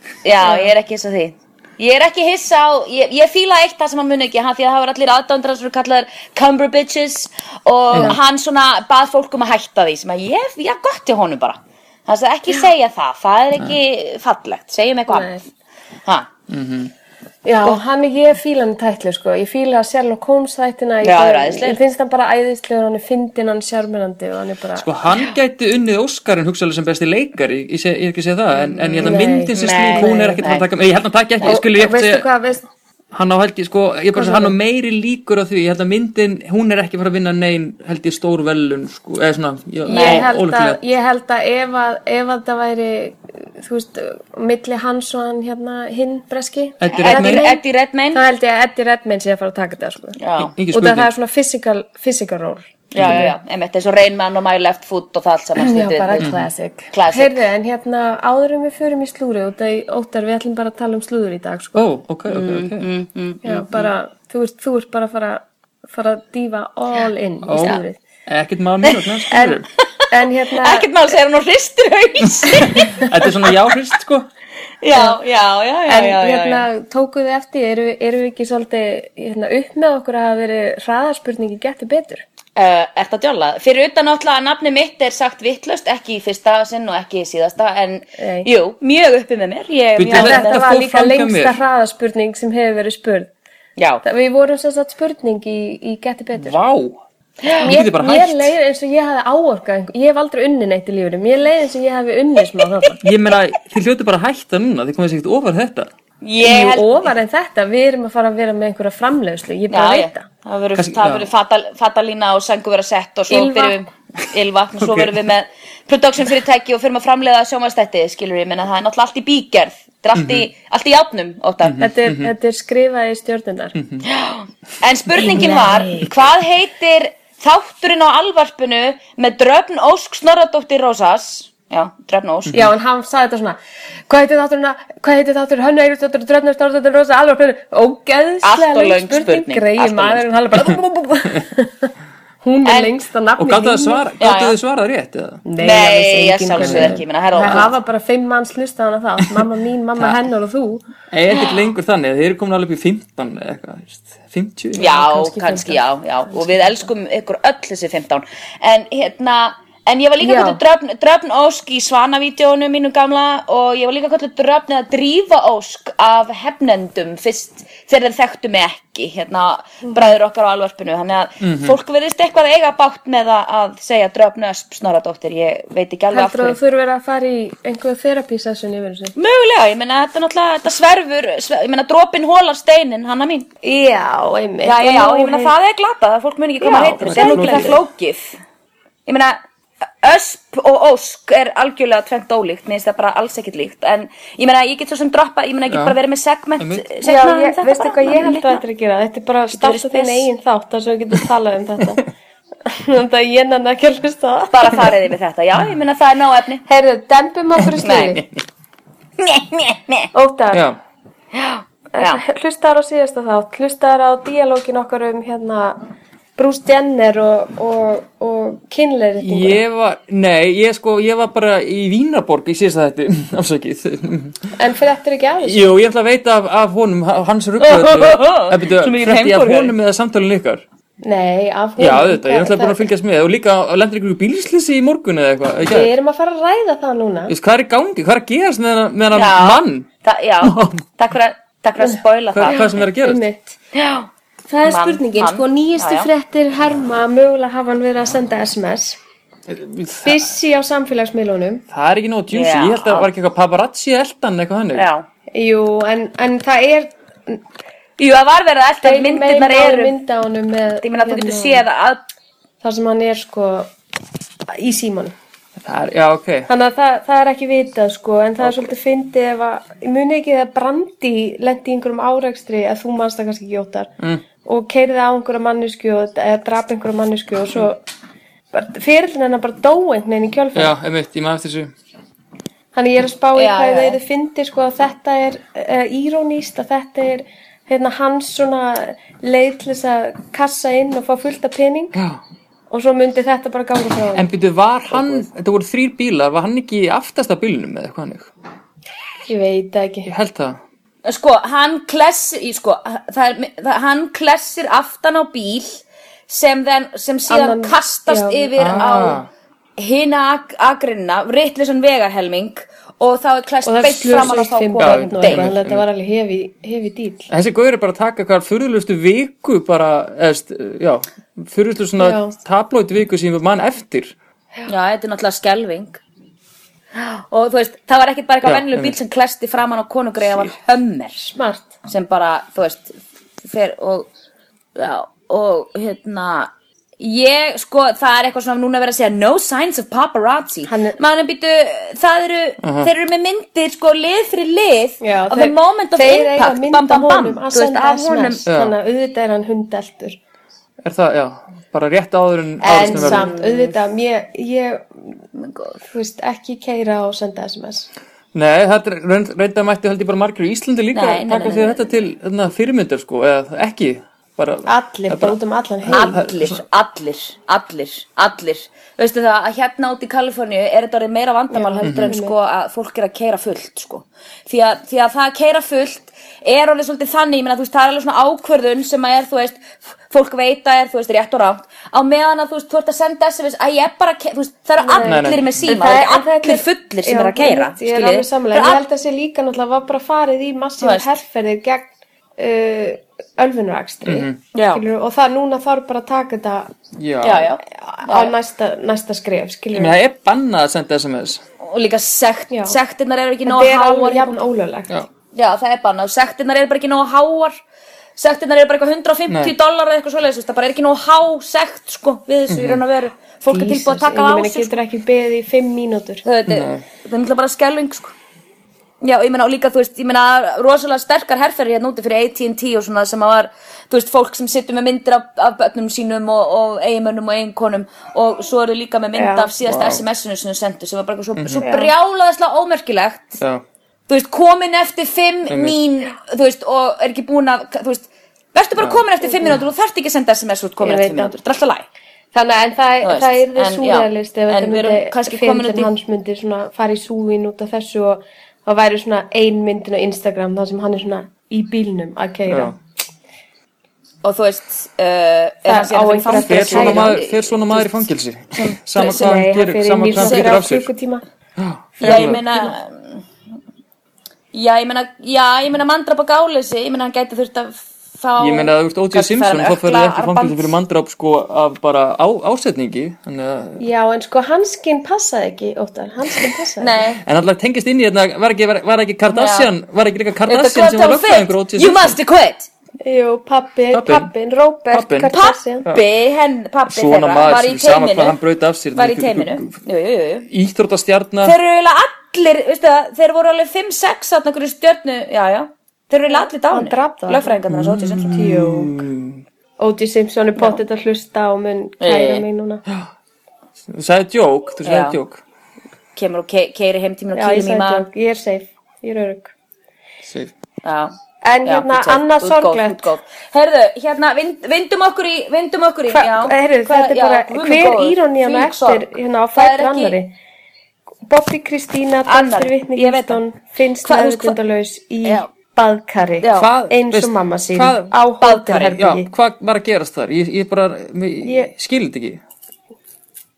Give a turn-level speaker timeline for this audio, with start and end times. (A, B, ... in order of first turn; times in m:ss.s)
0:00.2-0:15.4 A
0:00.4-0:00.7 B
0:07.9-0:08.2 C
0:15.1-0:15.4 B
0:16.0-0:16.3 A
0:16.5-0:16.9 C
0:17.4-0:24.9 B
0:21.0-0:21.8 A
0:24.8-0:32.3 C
0:28.7-0:30.7 A
0:29.0-0:30.5 B
0:31.4-0:32.7 B
0:33.1-0:40.8 C
0:34.1-0:34.6 B
0:39.8-0:50.2 B
0:39.9-0:40.3 A
0:46.8-0:47.5 C
0:47.0-0:48.2 A
0:50.2-0:50.5 A
0:50.4-0:51.1 C
0:50.7-0:53.3 B
0:52.9-0:56.3 A
0:53.0-0:53.3 C
0:55.6-1:01.8 B
0:56.2-0:56.5 C
0:56.9-0:57.4 A
1:01.7-1:02.9 C
1:02.3-1:03.9 A
1:03.4-1:08.0 B
1:07.5-1:09.7 C
1:08.8-1:09.1 A
1:09.3-1:10.9 B
1:10.0-1:13.5 A
1:12.7-1:14.3 C
1:12.7-1:13.1 B
1:14.8-1:16.6 A
1:15.9-1:22.2 B
1:22.6-1:30.7 A
1:28.2-1:28.5 B
1:30.0-1:31.6 C
1:30.1-1:33.3 B
1:33.8-1:34.0 A
1:34.0-1:36.6 B
1:36.4-1:37.0 C
1:37.4-1:37.7 A
1:37.6-1:38.5 C
1:37.6-1:43.0 B
1:43.0-1:45.9 C
1:46.2-1:47.1 A
1:46.4-1:50.3 B
1:49.7-2:01.8 A
1:50.8-1:51.3 C
1:53.3-1:53.8 B
1:54.8-1:55.2 C
2:00.2-2:00.5 C
2:01.6-2:02.3 C
2:01.8-2:03.8 B
2:03.8-2:04.1 C
2:04.0-2:12.5 A
2:05.2-2:06.1 B
2:12.5-2:24.0 B
2:18.4-2:20.4 A
2:22.6-2:23.0 A
2:23.4-2:25.4 C
2:24.2-2:24.6 A
2:25.5-2:30.8 B
2:25.6-2:27.7 A
2:26.6-2:27.7 C
2:31.1-2:34.9 C
2:34.8-2:36.9 B
2:34.8-2:56.6 A
2:40.2-2:40.6 B
2:51.4-2:51.8 C
2:56.1-2:59.2 B
2:59.2-3:03.5 A
3:03.6-3:05.5 B
3:04.6-3:08.4 A
3:06.6-3:07.8 B
3:07.0-3:07.8 C
3:09.1-3:09.4 A
3:10.0-3:18.6 A
3:15.7-3:16.0 C
3:16.6-3:16.9 C
3:17.0-3:22.1 B
3:19.5-3:20.3 A
3:22.7-3:24.9 B
3:24.5-3:26.6 A
3:26.7-3:28.2 B
3:27.8-3:28.2 A
3:29.2-3:30.1 A
3:30.1-3:30.6 B
3:30.5-3:30.8 C
3:31.3-3:32.2 A
3:31.9-3:35.8 B
3:36.4-3:39.6 B
3:39.2-3:44.5 C
3:44.6-3:45.8 B
3:45.4-3:50.6 C
3:47.6-3:49.7 A
3:51.0-3:52.9 B
3:51.8-3:55.9 C
3:55.7-3:57.3 B
3:57.3-3:59.9 C
3:59.1-4:02.8 A
4:00.4-4:00.8 C
4:01.8-4:03.6 B
4:02.3-4:03.2 C
4:03.7-4:04.1 A
4:04.5-4:09.0 B
4:04.6-4:06.1 A
4:09.5-4:10.3 C
4:10.0-4:11.6 B
4:11.7-4:14.9 C
4:12.3-4:13.1 A
4:14.7-4:15.1 A
4:15.3-4:17.4 B
4:18.0-4:19.9 A
4:18.8-4:21.6 B
4:20.8-4:22.1 A
4:22.6-4:23.7 B
4:24.5-4:25.2 B
4:25.6-4:26.5 C
4:26.5-4:33.9 B
4:28.4-4:28.7 C
4:34.4-4:37.8 B
4:38.5-4:40.8 B
4:40.6-4:41.7 C
4:42.7-4:52.0 B
4:43.4-4:44.0 A
4:51.9-4:52.2 C
4:52.7-4:54.3 B
4:54.2-4:58.3 C
4:54.9-4:55.3 B
4:59.3-5:00.1 B
5:00.1-5:00.6 C
5:01.0-5:09.2 A
5:07.3-5:08.5 B
5:08.6-5:09.3 C
5:09.8-5:15.5 A
5:13.6-5:17.3 B
5:14.8-5:15.8 C
5:17.3-5:24.1 C
5:22.0-5:22.4 B
5:24.7-5:26.0 A
5:27.0-5:31.3 A
5:28.4-5:29.0 C
5:31.3-5:31.7 B
5:31.8-5:34.1 A
5:34.8-5:48.4 A
5:40.7-5:41.0 B
5:42.6-5:42.9 C
5:45.0-5:50.2 B
5:48.5-5:48.8 C
5:50.8-5:53.3 C
5:52.6-5:55.0 B
5:52.8-5:53.8 A
5:55.4-5:55.8 A
5:55.9-5:57.9 B
5:58.3-6:06.6 C
6:00.9-6:01.9 A
6:04.7-6:06.2 B
6:05.9-6:28.8 A
6:11.5-6:12.3 B
6:11.8-6:12.2 C
6:24.8-6:36.7 B
6:25.0-6:25.7 C
6:30.8-6:31.1 A
6:34.0-6:34.4 C
6:34.5-6:34.8 A
6:37.0-6:37.5 C
6:37.2-6:38.3 A
6:37.8-6:40.0 B
6:39.7-6:41.4 C
6:41.6-6:44.4 A
6:42.5-6:42.8 B
6:43.4-6:44.9 B
6:45.3-6:47.6 A
6:48.2-6:54.7 A
6:49.3-6:49.5 C
6:52.5-6:52.8 C
6:53.5-6:56.2 B
6:56.2-6:58.1 A
6:56.5-6:56.8 C
6:59.0-7:13.4 A
7:09.2-7:09.5 B
7:09.6-7:10.0 C
7:11.4-7:11.7 C
7:11.6-7:11.9 B
7:14.1-7:21.8 A
7:15.5-7:15.8 C
7:19.3-7:19.6 B
7:20.8-7:21.3 B
7:22.3-7:32.8 B
7:23.0-7:25.9 A
7:32.5-7:32.8 C
7:34.2-7:38.0 A
7:35.7-7:37.2 B
7:36.3-7:40.9 C
7:38.5-7:39.2 A
7:39.0-7:41.2 B
7:40.1-7:40.6 A
7:41.6-7:42.4 C
7:42.0-7:42.7 B
7:42.0-7:43.2 A
7:44.5-7:50.8 A
7:48.4-7:53.8 C
7:53.8-7:57.0 B
7:56.8-7:57.2 A
7:57.2-8:02.2 C
7:59.3-7:59.7 A
8:00.5-8:02.7 A
8:03.0-8:05.9 B
8:03.9-8:04.3 C
8:04.9-8:05.3 C
8:05.3-8:08.4 A
8:06.9-8:09.7 C
8:08.9-8:10.5 A
8:10.5-8:11.6 C
8:11.4-8:18.5 A
8:16.3-8:17.5 B
8:17.7-8:19.4 C
8:18.3-8:19.0 B
8:19.8-8:22.8 B
8:22.0-8:22.4 A
8:23.9-8:25.4 C
8:24.8-8:25.2 A
8:26.2-8:28.0 A
8:27.3-8:29.5 B
8:30.2-8:30.5 C
8:30.8-8:31.1 A
8:31.4-8:33.1 B
8:31.6-8:40.2 A
8:36.1-8:40.4 B
8:41.3-8:49.3 B
8:42.3-8:43.4 A
8:44.0-8:44.6 A
8:46.4-8:46.7 A
8:46.6-8:48.1 C
8:48.4-8:48.9 A
8:48.9-8:52.4 C
8:51.4-8:51.7 B